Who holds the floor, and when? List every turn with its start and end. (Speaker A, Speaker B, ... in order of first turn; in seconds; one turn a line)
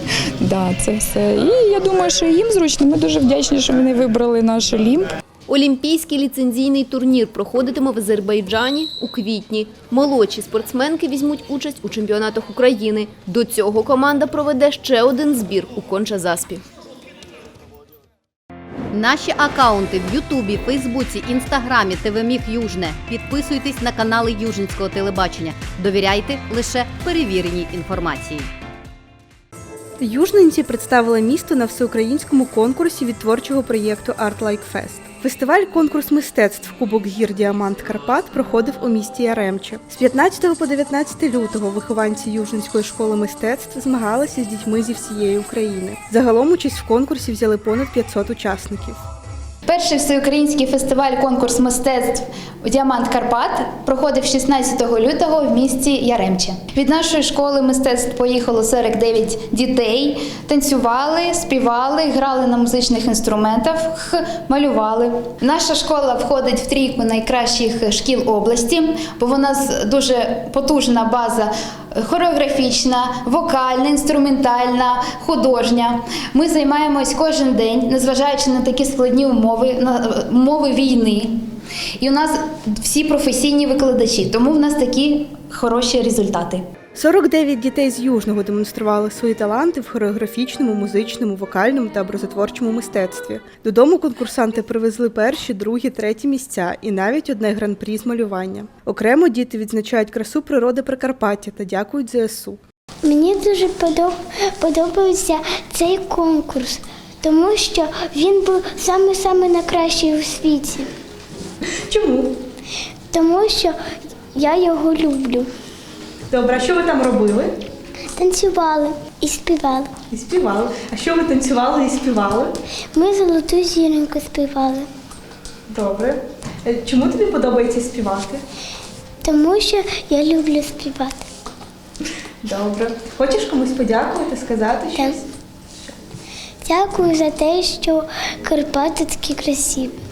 Speaker A: 0.4-5.1
Speaker B: 5.5-16.6
Speaker C: 18.9-28.5
Speaker D: 30.0-49.0
Speaker E: 49.7-81.3
Speaker E: 82.0-86.6
Speaker D: 87.0-102.6
Speaker F: 103.0-110.9
Speaker D: 111.9-112.4
Speaker F: 113.1-113.8
Speaker F: 114.3-115.5
Speaker D: 116.3-117.5
Speaker F: 118.1-119.9
Speaker D: 120.1-122.5
Speaker F: 122.9-124.9
Speaker D: 125.7-128.4
Speaker F: 129.2-131.2
Speaker D: 132.4-135.2
Speaker F: 136.6-140.0